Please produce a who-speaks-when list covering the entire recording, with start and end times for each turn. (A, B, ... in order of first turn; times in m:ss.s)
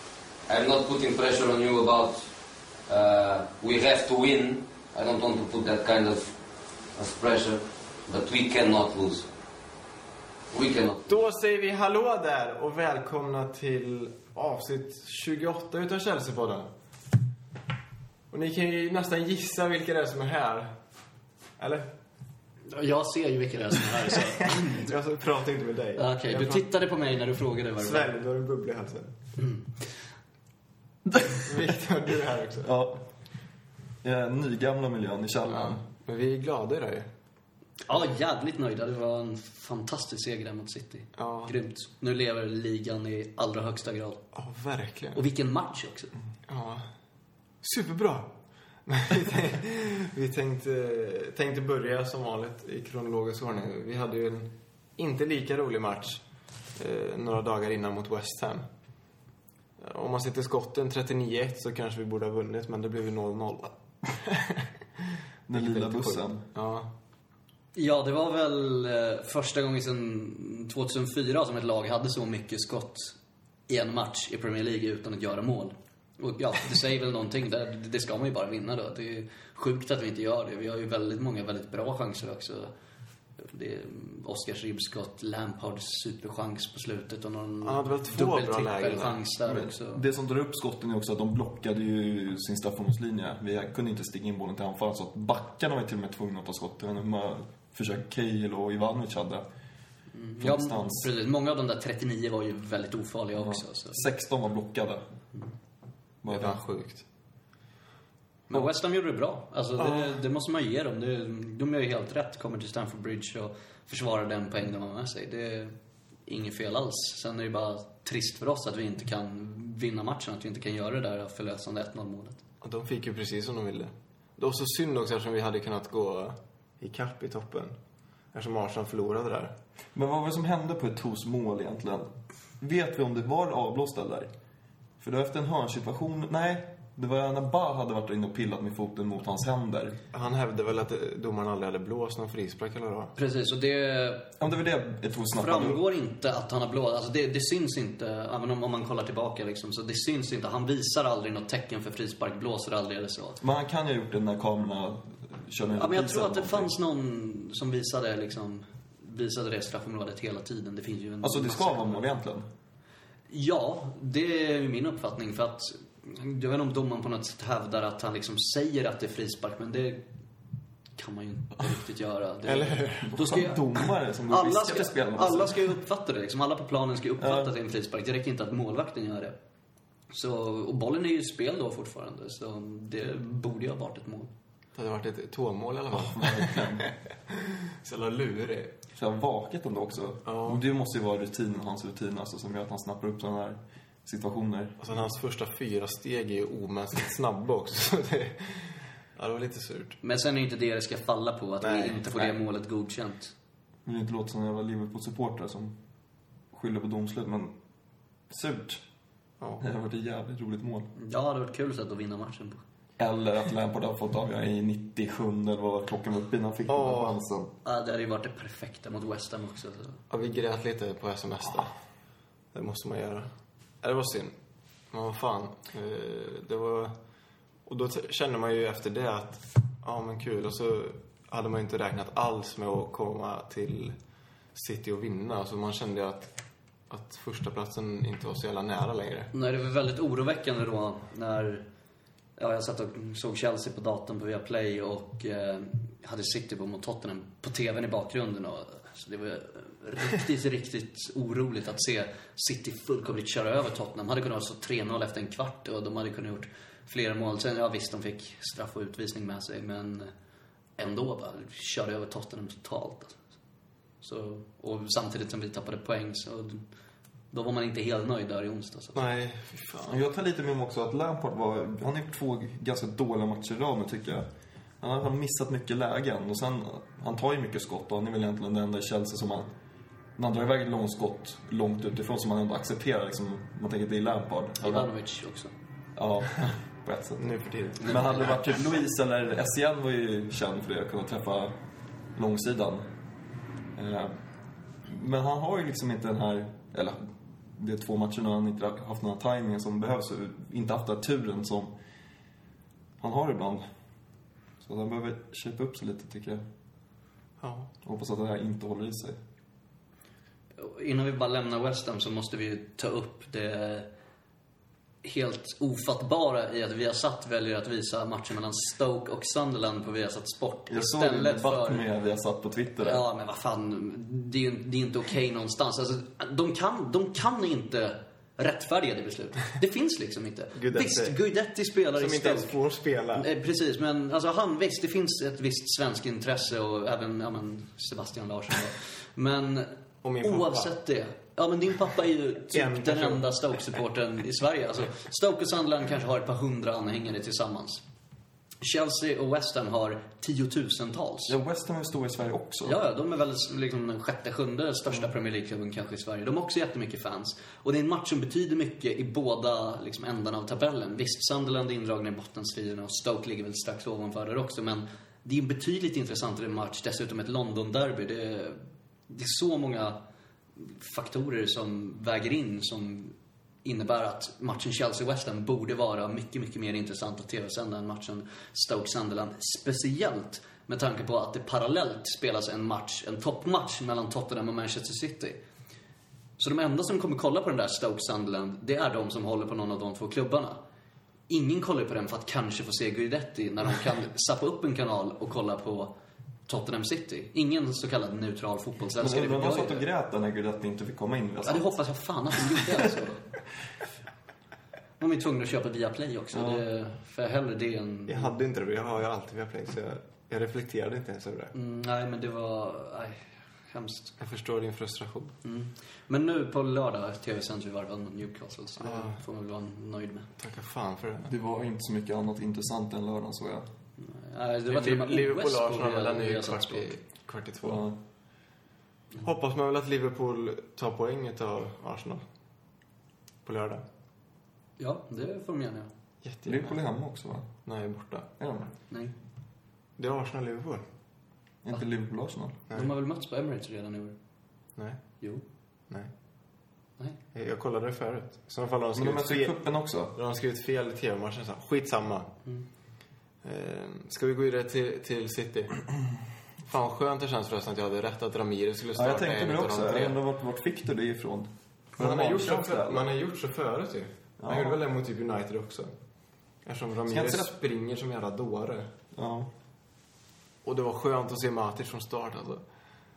0:00.5-0:02.3 A
0:02.8-0:06.4 A
0:06.9-0:09.3 A
0:10.5-0:11.1 A
0:11.0-0:16.7 B
0:18.3-0:20.8 B
0:21.6-0:21.9 B
0:22.7-0:24.9 C
0:24.6-0:26.6 B
0:26.0-0:28.1 C
0:27.8-0:29.1 B
0:29.4-0:29.9 C
0:31.1-0:31.5 D
0:31.4-0:32.7 B
0:32.6-0:33.1 D
0:34.0-0:35.8 D
0:35.5-0:37.1 B
0:37.9-0:44.2 C
0:41.2-0:41.6 B
0:44.3-0:45.2 B
0:45.2-0:46.1 C
0:46.5-0:46.9 B
0:47.6-0:48.4 B
0:48.9-0:56.2 B
0:56.8-0:58.7 B
0:59.8-1:04.7 B
1:05.5-1:06.4 D
1:05.5-1:06.9 B
1:07.7-1:13.2 C
1:13.7-1:22.7 C
1:23.4-1:30.0 C
1:27.6-1:29.2 B
1:29.4-1:39.4 D
1:40.1-1:44.0 C
1:40.4-1:41.1 D
1:43.4-1:45.1 D
1:46.2-1:46.6 D
1:46.2-1:47.0 B
1:48.5-1:55.7 C
1:49.8-1:50.2 B
1:56.2-2:02.4 C
2:02.6-2:07.8 B
2:08.3-2:09.6 B
2:09.9-2:14.3 D
2:15.0-2:20.0 D
2:20.1-2:23.1 B
2:23.2-2:24.3 C
2:24.4-2:25.8 D
2:25.4-2:33.4 C
2:33.4-2:36.7 D
2:35.8-2:42.1 C
2:41.2-2:42.5 D
2:43.3-2:50.1 C
2:51.0-2:59.4 C
2:52.4-2:53.2 B
2:53.1-2:55.8 D
2:57.2-2:57.5 D
3:00.1-3:04.3 C
3:04.8-3:06.9 B
3:05.9-3:06.9 D
3:07.8-3:08.8 B
3:08.9-3:14.8 D
3:10.2-3:10.6 B
3:14.8-3:20.0 B
3:20.0-3:23.3 C
3:21.6-3:22.4 B
3:23.8-3:25.8 D
3:26.5-3:27.6 D
3:28.3-3:28.8 D
3:29.4-3:29.7 B
3:29.6-3:30.9 D
3:31.0-3:32.6 C
3:33.0-3:37.5 D
3:36.7-3:37.2 B
3:37.6-3:40.0 C
3:40.1-3:41.8 B
3:42.5-3:44.3 B
3:44.9-3:47.0 B
3:47.7-3:53.9 B
3:54.5-3:56.3 B
3:56.9-3:59.3 B
3:59.3-4:01.7 C
4:02.4-4:20.1 C
4:20.8-4:23.2 C
4:24.0-4:26.6 C
4:27.3-4:29.0 C
4:28.9-4:30.0 B
4:29.9-4:34.3 D
4:34.8-4:39.5 D
4:40.2-4:44.9 D
4:44.6-4:45.5 C
4:46.0-4:47.3 D
4:47.2-4:48.1 B
4:47.8-4:51.6 D
4:47.9-4:48.3 C
4:52.1-4:52.9 D
4:53.8-4:54.1 D
4:54.8-5:01.8 D
5:03.0-5:03.6 D
5:04.6-5:06.4 D
5:07.4-5:07.7 B
5:07.8-5:09.2 D
5:10.6-5:13.9 C
5:15.0-5:21.9 C
5:20.7-5:23.0 D
5:22.8-5:32.6 C
5:30.6-5:31.2 B
5:32.0-5:33.3 B
5:33.1-5:47.8 C
5:40.0-5:40.7 B
5:42.5-5:43.3 B
5:48.6-5:51.3 C
5:51.3-5:52.8 D
5:52.6-6:10.0 C
6:10.6-6:25.4 C
6:26.4-6:30.6 C
6:31.3-6:35.9 C
6:36.5-6:39.8 C
6:39.0-6:41.8 D
6:41.4-6:43.2 C
6:42.3-6:42.7 D
6:45.0-6:48.3 C
6:46.3-6:46.6 D
6:48.1-6:51.5 B
6:51.5-6:54.2 C
6:54.2-6:55.4 B
6:55.4-7:00.3 C
6:58.8-6:59.2 B
7:00.4-7:01.3 B
7:01.3-7:03.7 D
7:04.0-7:06.9 C
7:04.7-7:07.9 B
7:07.6-7:08.0 D
7:09.2-7:12.2 B
7:13.4-7:13.8 B
7:14.8-7:15.9 C
7:16.2-7:16.8 B
7:16.4-7:17.6 D
7:17.6-7:18.3 B
7:18.4-7:18.7 D
7:20.0-7:20.8 B
7:21.6-7:22.6 D
7:22.7-7:24.2 C
7:24.8-7:25.0 B
7:27.3-7:29.6 B
7:28.9-7:30.1 D
7:30.1-7:32.4 B
7:33.4-7:35.9 B
7:36.6-7:40.2 B
7:38.9-7:43.1 D
7:42.0-7:45.9 B
7:44.4-7:44.8 D
7:46.6-7:48.9 B
7:47.1-7:47.5 D
7:49.1-7:49.5 D
7:50.6-7:52.6 B